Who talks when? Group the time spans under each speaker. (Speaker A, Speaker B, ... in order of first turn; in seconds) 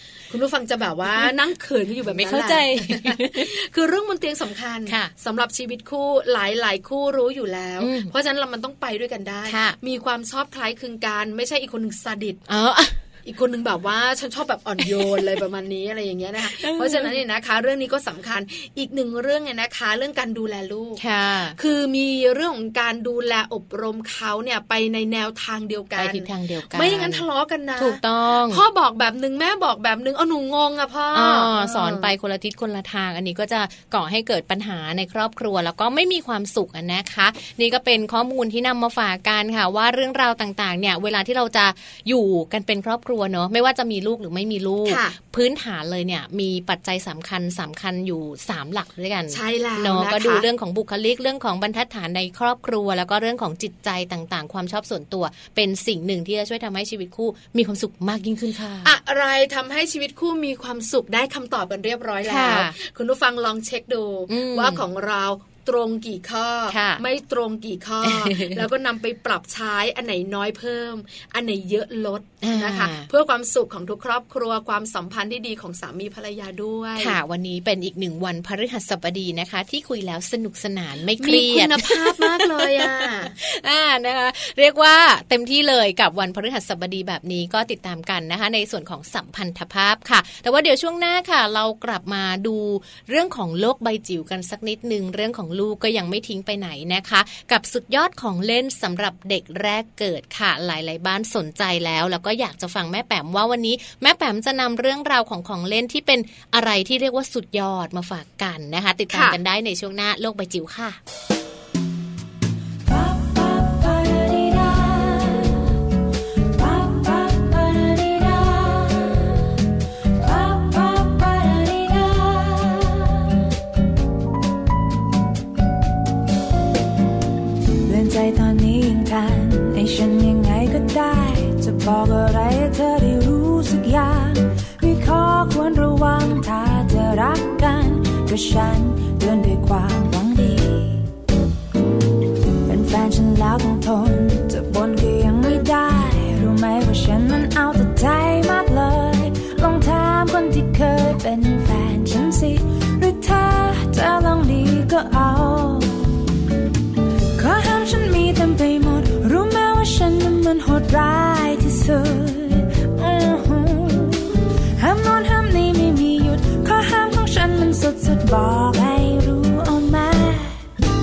Speaker A: 0.3-12.4, 13.2-21.0, 21.5-32.1, 44.8-45.1, 49.3-50.5, 58.8-77.2, 81.2-83.3, 109.1-109.4
Speaker B: 2.0-3.5, 4.9-5.1, 7.8-8.1, 9.5-9.8, 12.5-13.0, 14.8-15.2, 16.5-17.2, 21.0-21.6, 25.9-27.2, 27.8-28.6, 31.1-58.9, 62.2-62.7, 64.3-64.8, 66.7-67.0, 68.0-68.6, 72.4-73.1, 77.0-111.0
Speaker C: 112.8-115.8, 116.5-119.5, 120.2-123.3, 127.8-141.1, 142.7-156.2, 157.3-170.6